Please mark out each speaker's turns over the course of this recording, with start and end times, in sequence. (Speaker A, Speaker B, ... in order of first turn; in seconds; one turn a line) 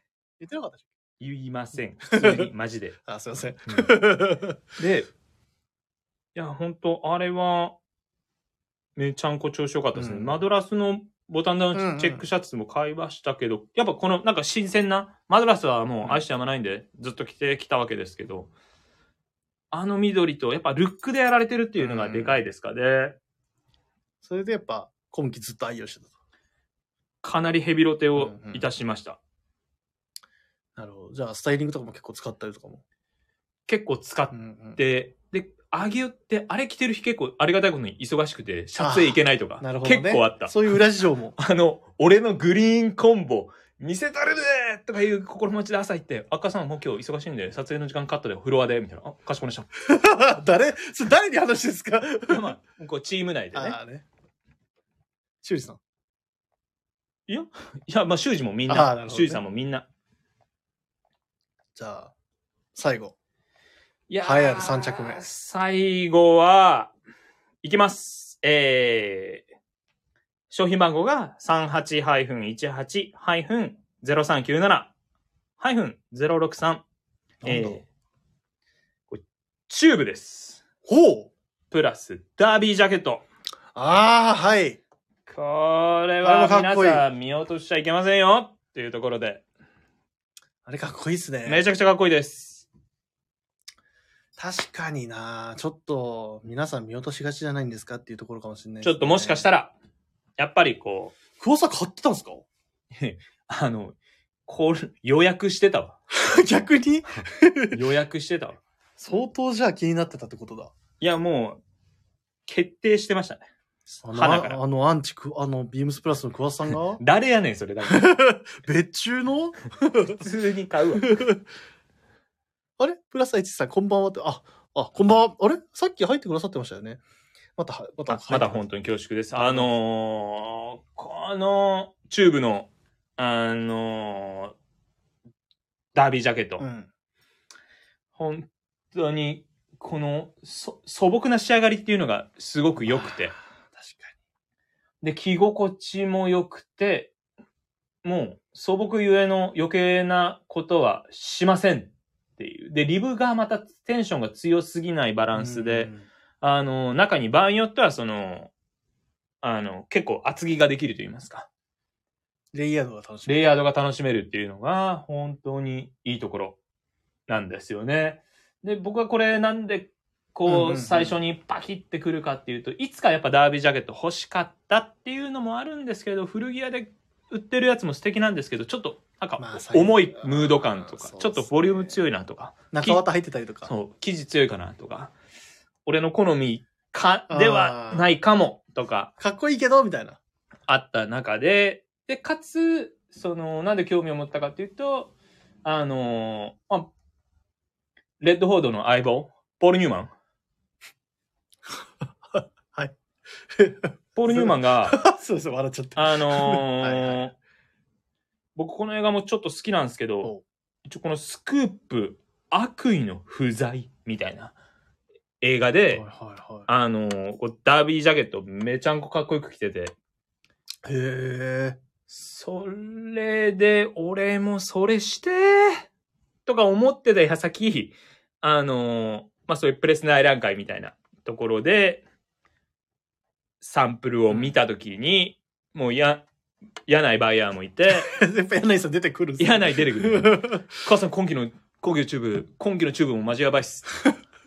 Speaker A: 0.4-0.9
Speaker B: 1.2-3.0
Speaker A: 2.1-2.5
Speaker A: 3.1-4.6
Speaker B: 4.8-5.1
Speaker B: 6.3-7.8
Speaker B: 9.0-18.5
Speaker A: 9.9-10.4
Speaker A: 11.7-12.2
Speaker B: 19.7-23.2
Speaker A: 21.8-22.4
Speaker A: 24.2-26.1
Speaker B: 27.2-29.2
Speaker A: 28.2-28.7
Speaker A: 30.8-32.8
Speaker B: 33.7-40.5
Speaker A: 34.3-34.8
Speaker A: 38.8-41.4
Speaker B: 41.4-49.7
Speaker A: 49.8-52.5
Speaker B: 52.3-53.8
Speaker A: 53.5-54.0
Speaker A: 55.4-55.8
Speaker B: 57.3-59.9
Speaker A: 58.7-59.4
Speaker A: 61.8-62.1
Speaker A: 62.7-63.1
Speaker B: 64.1-66.9
Speaker A: 64.2-65.3
Speaker B: 67.6-69.5
Speaker B: 70.5-74.9
Speaker B: 75.6-76.8
Speaker A: 77.4-77.8
Speaker B: 77.4-77.8
Speaker B: 79.1-80.6
Speaker A: 80.9-81.3
Speaker B: 81.7-83.2
Speaker A: 83.8-84.8
Speaker B: 85.3-89.4
Speaker A: 86.2-87.0
Speaker A: 90.7-91.7
Speaker B: 91.5-92.7
Speaker A: 94.4-99.5
Speaker B: 98.8-99.7
Speaker B: 100.4-101.2
Speaker A: 101.4-102.5
Speaker B: 103.0-104.0
Speaker B: 104.5-106.0
Speaker A: 106.1-107.8
Speaker B: 107.7-108.6
Speaker A: 109.0-110.7
Speaker B: 111.0-111.6
Speaker B: 112.5-113.5
Speaker A: 113.9-117.0
Speaker B: 114.1-114.6
Speaker B: 117.0-118.1
Speaker A: 117.8-120.2
Speaker B: 120.2-121.2
Speaker A: 121.0-121.4
Speaker A: 122.8-127.0
Speaker A: 127.6-128.6
Speaker B: 128.1-134.6
Speaker A: 129.3-129.7
Speaker B: 135.9-136.7
Speaker A: 136.6-136.9
Speaker B: 138.2-143.3
Speaker A: 142.9-143.2
Speaker A: 143.7-144.2
Speaker B: 145.0-147.1
Speaker B: 148.0-158.5
Speaker A: 155.3-156.1
Speaker B: 159.4-161.5
Speaker A: 162.5-163.3
Speaker B: 163.3-166.6
Speaker B: 167.3-183.0
Speaker A: 170.5-171.2
Speaker A: 179.4-181.9
Speaker A: 182.7-183.7
Speaker B: 183.7-185.1
Speaker B: 185.9-189.1
Speaker A: 187.3-188.1
Speaker A: 189.2-190.2
Speaker B: 190.7-195.1
Speaker B: 195.6-196.9
Speaker B: 198.2-200.1
Speaker A: 202.3-202.9
Speaker A: 203.5-207.2
Speaker B: 204.2-205.0
Speaker B: 206.0-207.3
Speaker B: 208.6-210.3
Speaker B: 210.9-214.6
Speaker B: 215.4-216.1
Speaker A: 215.9-216.7
Speaker B: 216.7-219.9
Speaker A: 220.8-221.8
Speaker B: 222.1-225.9
Speaker B: 226.5-232.1
Speaker B: 233.6-236.2
Speaker A: 234.3-234.6
Speaker B: 236.9-238.2
Speaker A: 238.0-240.7
Speaker B: 239.4-243.9